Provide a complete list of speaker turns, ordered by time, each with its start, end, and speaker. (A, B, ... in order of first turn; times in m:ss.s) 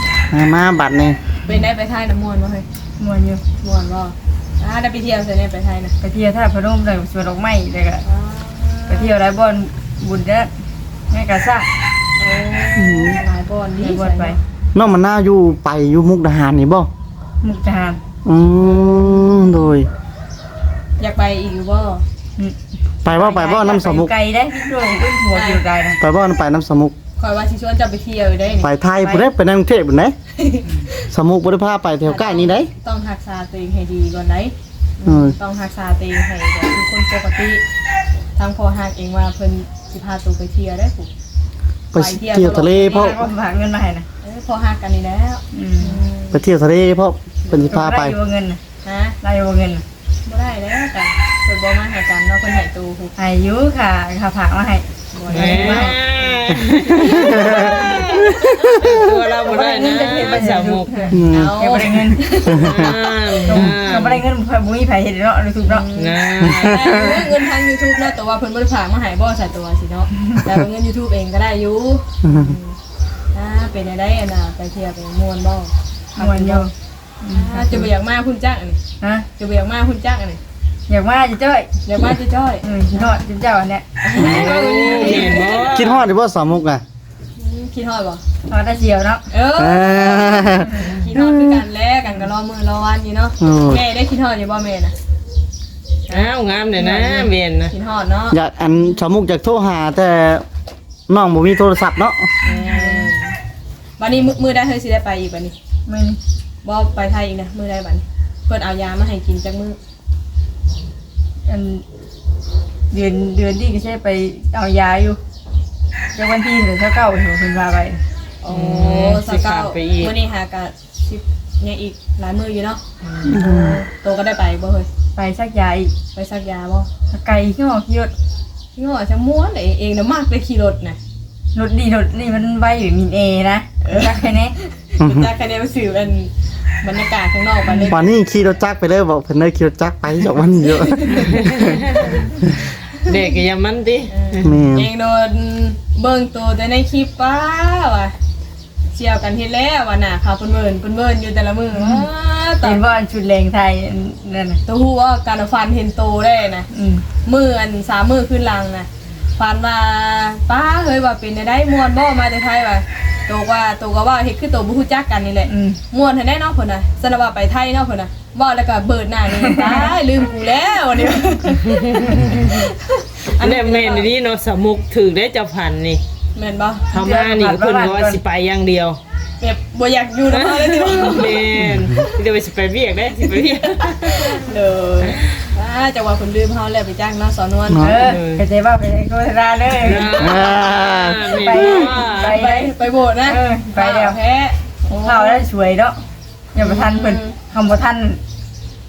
0:00.3-0:01.2 A
0:01.4-0:02.6 B
0:03.0-0:03.4 C
0:03.6-0:05.9 B
0:06.0-0:08.0 C
0:08.0-0:09.1 B
0:08.9-0:10.5 C
0:11.1-0:11.7 C
0:12.2-0:14.4 B
0:12.8-0:13.2 A
0:13.8-0:14.4 C
0:14.7-0:16.9 A
0:17.4-0:18.0 C
0:18.2-0:19.9 A
0:18.6-0:19.6 B
0:21.0-0:22.0 B
0:23.0-0:24.1 A
0:23.1-0:26.0 C
0:25.3-0:25.6 B
0:26.0-0:26.9 A
0:27.2-0:28.7 B
0:28.6-0:30.1 A
0:29.0-0:29.3 C
0:30.4-0:30.9 B
0:31.1-0:32.7 A
0:32.0-0:37.6 B
0:35.0-0:35.4 A
0:38.4-0:41.1 B
0:41.9-0:43.2 A
0:41.9-0:43.2 B
0:42.9-0:44.0 C
0:44.2-0:46.4 B
0:45.5-0:46.0 C
0:46.3-0:48.2 A
0:47.7-0:48.6 C
0:48.8-0:49.2 B
0:49.2-0:49.8 C
0:50.2-0:53.1 B
0:53.2-0:56.0 C
0:55.1-0:58.8 B
0:55.3-1:01.1 D
0:56.9-0:59.2 A
0:59.4-1:02.3 C
1:01.1-1:01.6 A
1:01.1-1:03.0 B
1:02.5-1:03.0 A
1:02.5-1:04.2 D
1:03.5-1:05.8 C
1:05.6-1:12.8 B
1:06.0-1:07.3 D
1:06.4-1:07.2 A
1:12.2-1:12.5 A
1:13.3-1:16.7 B
1:16.2-1:17.9 C
1:17.3-1:18.8 B
1:19.0-1:19.2 C
1:19.4-1:20.4 B
1:20.9-1:21.7 C
1:21.8-1:23.2 B
1:22.6-1:25.4 C
1:24.0-1:25.8 B
1:24.2-1:26.0 D
1:24.2-1:24.5 A
1:25.6-1:26.8 A
1:27.4-1:28.2 B
1:28.5-1:29.2 C
1:29.3-1:34.9 B
1:29.6-1:31.6 A
1:33.4-1:33.8 A
1:36.1-1:37.7 D
1:36.1-1:38.4 B
1:38.3-1:40.4 A
1:41.1-1:42.3 A
1:42.4-1:43.3 B
1:42.4-1:43.1 C
1:44.0-1:45.5 B
1:45.9-1:46.2 C
1:46.6-1:49.8 B
1:51.5-1:51.8 C
1:52.9-1:55.2 C
1:56.2-1:58.0 C
1:58.4-2:04.9 B
1:58.5-2:00.1 D
2:03.0-2:03.4 D
2:03.2-2:03.8 A
2:05.2-2:05.9 C
2:06.1-2:06.9 B
2:07.1-2:08.1 C
2:08.8-2:11.0 B
2:11.5-2:14.5 C
2:13.8-2:16.3 B
2:15.0-2:15.3 A
2:16.8-2:18.1 B
2:17.7-2:17.9 C
2:17.9-2:21.8 A
2:20.6-2:22.2 B
2:21.1-2:24.5 D
2:24.1-2:28.1 B
2:24.4-2:24.9 A
2:28.9-2:32.8 B
2:31.7-2:32.1 C
2:32.6-2:34.6 C
2:34.6-2:36.7 B
2:36.7-2:37.0 C
2:37.2-2:54.1 B
2:45.5-2:45.8 C
2:49.3-2:49.9 C
2:51.6-2:52.6 D
2:53.4-2:56.0 D
2:56.3-2:56.9 B
2:56.9-2:58.2 C
2:56.9-2:59.0 D
2:59.4-3:01.5 B
3:00.3-3:04.5 D
3:01.6-3:01.9 A
3:03.3-3:08.1 B
3:05.0-3:05.4 D
3:07.7-3:08.0 A
3:07.8-3:10.1 C
3:08.0-3:08.4 D
3:09.8-3:12.4 D
3:10.1-3:11.6 A
3:11.3-3:12.7 C
3:11.6-3:15.5 B
3:13.2-3:14.2 C
3:14.9-3:16.0 C
3:16.5-3:18.2 C
3:16.6-3:17.3 B